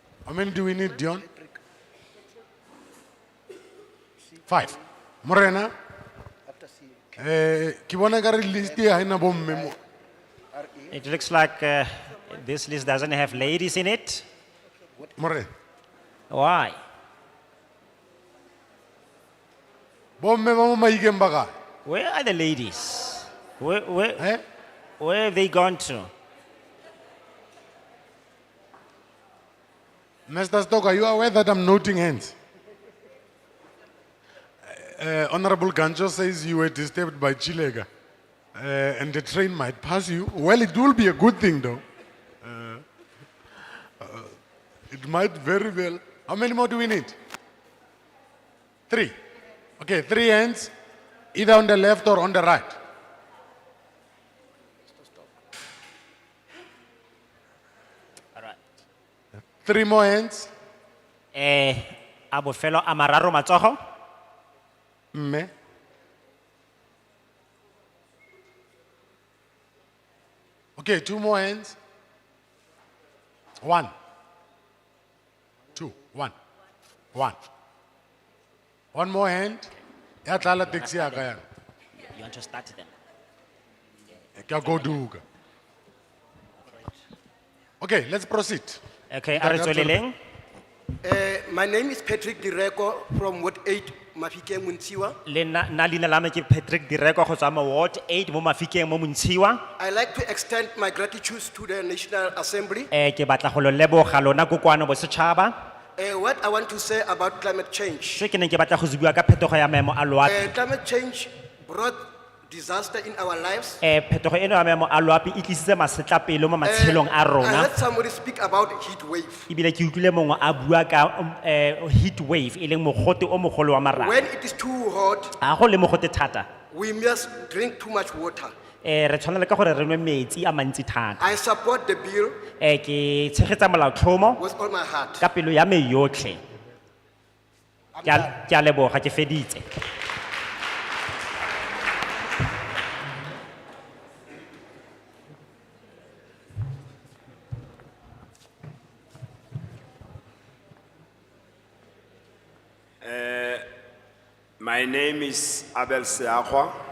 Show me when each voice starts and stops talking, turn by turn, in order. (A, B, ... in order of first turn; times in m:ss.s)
0:00.2-0:01.2 A
0:04.5-0:05.7 A
0:06.5-0:07.0 B
0:07.2-0:09.7 A
0:10.5-0:10.9 B
0:10.9-0:14.2 C
0:15.2-0:15.5 A
0:16.3-0:16.8 C
0:20.2-0:21.5 A
0:21.8-0:24.3 C
0:24.2-0:24.4 A
0:25.0-0:26.1 C
0:30.3-0:32.3 A
0:34.7-0:37.9 A
0:38.5-0:41.8 A
0:42.4-0:42.8 A
0:44.0-0:44.3 A
0:44.9-0:47.2 A
0:48.9-0:49.1 A
0:49.8-0:50.7 A
0:51.3-0:52.8 A
0:59.6-1:00.5 A
1:01.3-1:03.8 C
1:05.1-1:05.5 A
1:10.8-1:11.8 A
1:13.6-1:13.9 A
1:15.7-1:16.3 A
1:18.9-1:19.7 A
1:20.2-1:21.4 A
1:20.4-1:21.2 C
1:22.1-1:22.9 C
1:24.4-1:25.2 A
1:27.8-1:28.8 A
1:29.1-1:30.2 C
1:29.3-1:30.0 A
1:31.0-1:35.2 B
1:35.2-1:39.6 C
1:39.8-1:42.9 B
1:42.9-1:45.5 C
1:46.0-1:48.2 B
1:48.1-1:50.5 C
1:50.2-1:53.8 B
1:53.8-1:57.7 C
1:56.6-1:59.5 B
1:59.5-2:04.2 C
2:04.0-2:05.3 B
2:05.4-2:06.5 C
2:06.7-2:08.5 B
2:08.8-2:11.2 C
2:11.2-2:12.4 B
2:12.6-2:14.4 C
2:14.4-2:15.2 B
2:15.2-2:16.4 C
2:18.0-2:18.2 B
2:18.0-2:19.6 C
2:33.0-2:33.7 D
2:34.6-2:36.7 D